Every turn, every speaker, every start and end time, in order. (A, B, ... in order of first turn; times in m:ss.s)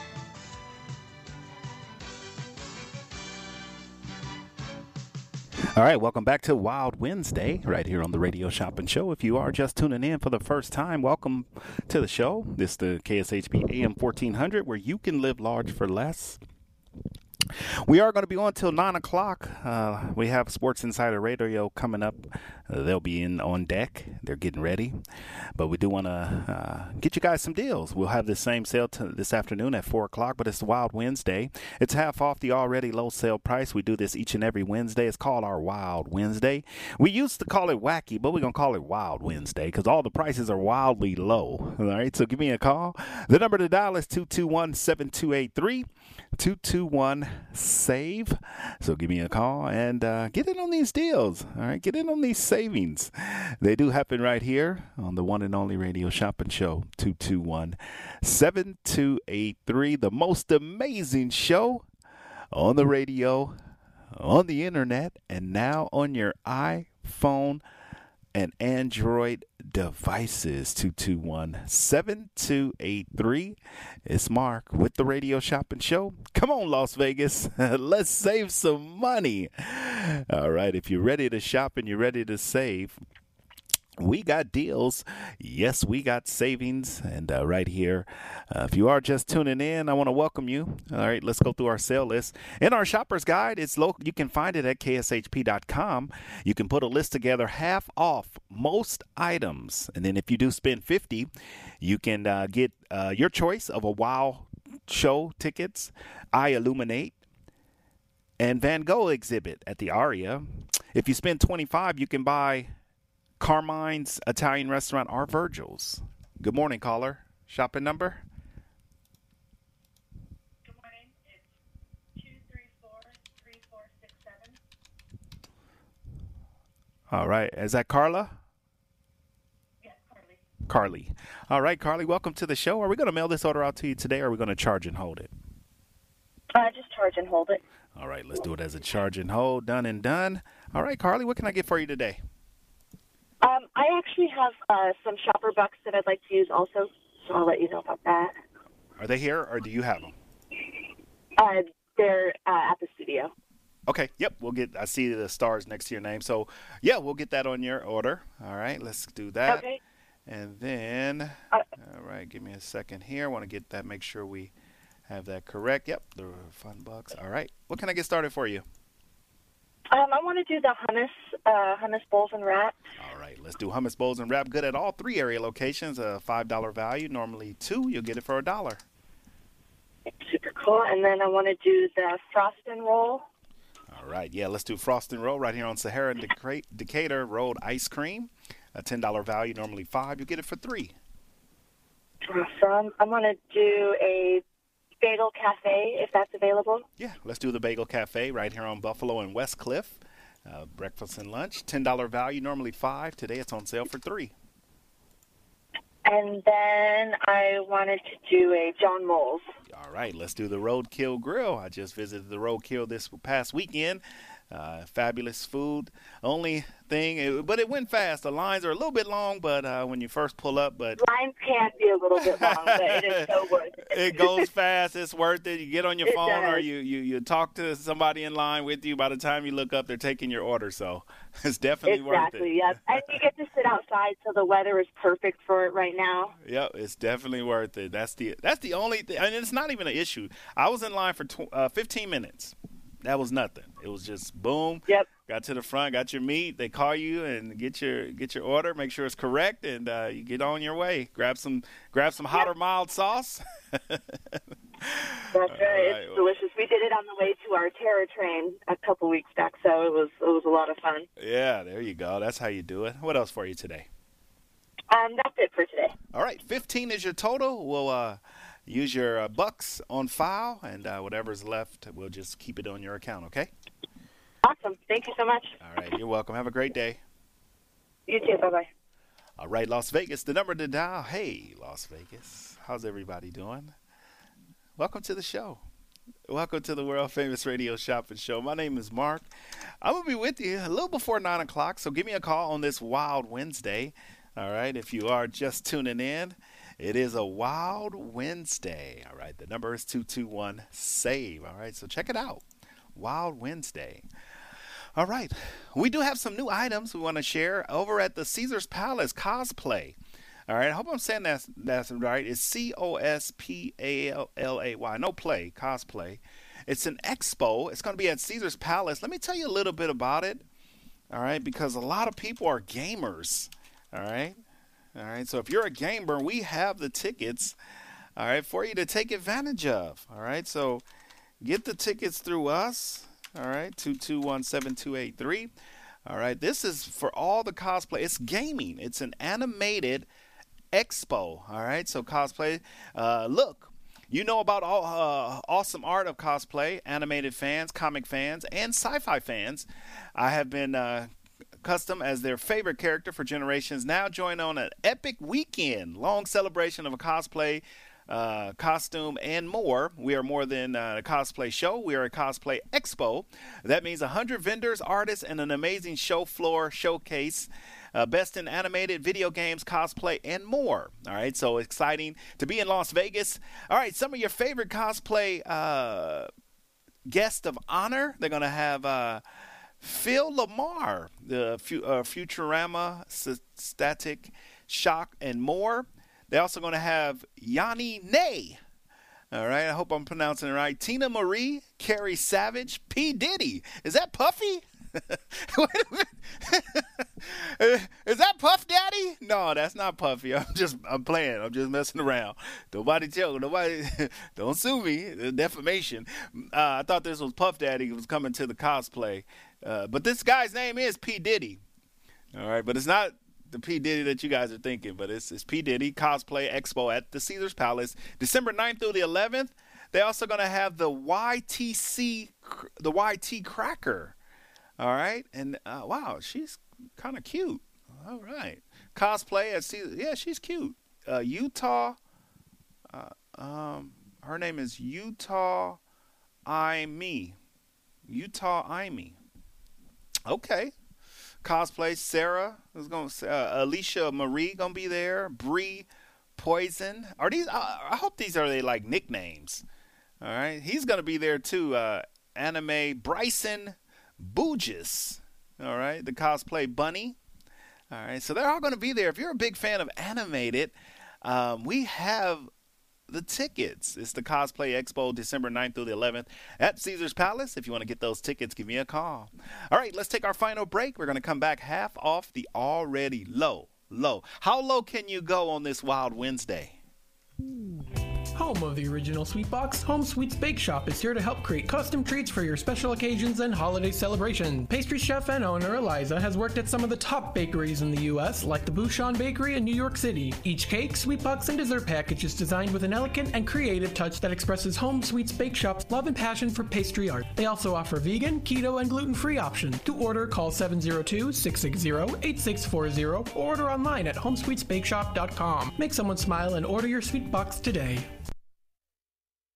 0:05.7-0:16.4 A
0:17.8-0:25.0 A
0:25.6-1:01.8 A
1:02.5-1:03.6 A
1:04.1-1:07.6 A
1:08.3-1:23.0 A
1:24.0-1:41.3 A
1:41.8-1:47.2 A
1:48.4-1:52.7 A
1:53.4-1:58.2 A
2:07.1-2:08.4 A
2:10.7-2:15.3 A
2:16.5-2:17.6 B
2:18.0-2:22.2 A
2:23.4-2:28.4 B
2:29.0-2:30.1 A
2:31.4-2:33.3 B
2:33.9-2:39.7 A
2:39.4-2:39.8 B
2:40.3-2:44.5 A
2:45.1-2:48.6 A
2:49.9-2:52.8 B
2:53.0-2:58.8 A
3:00.1-3:03.2 B
3:03.9-3:10.9 A
3:12.2-3:14.4 B
3:15.0-3:16.8 B
3:17.0-3:24.3 A
3:26.0-3:29.4 B
3:29.7-3:41.0 A
3:41.0-3:44.5 B
3:42.2-3:53.2 A
3:46.0-3:46.6 B
3:51.8-3:56.3 B
3:56.4-4:16.3 A
4:15.3-4:21.0 B
4:21.2-4:23.9 A
4:24.9-4:25.9 B
4:26.1-4:33.5 A
4:34.4-4:35.5 B
4:35.6-4:37.0 A
4:38.1-4:38.7 B
4:39.4-4:43.7 A
4:44.8-4:45.6 A
4:46.3-4:49.3 A
4:49.8-5:02.4 A
5:02.9-5:04.0 A
5:05.0-5:10.0 A
5:10.5-5:20.4 A
5:21.1-5:24.4 A
5:24.9-5:27.5 A
5:28.2-5:30.8 A
5:31.4-5:35.5 A
5:36.0-5:40.1 A
5:40.7-5:51.1 A
5:51.6-6:16.3 A
6:17.0-6:19.2 A
6:19.8-6:28.6 A
6:29.3-6:51.6 A
6:52.3-7:04.1 A
7:04.8-7:12.0 A
7:12.9-7:15.8 A
7:16.4-7:17.4 A
7:18.0-7:19.2 A
7:20.2-7:20.7 A
7:21.4-7:29.6 A
7:30.2-7:37.2 A
7:37.9-7:42.5 A
7:43.1-7:56.8 A
7:58.4-8:28.1 C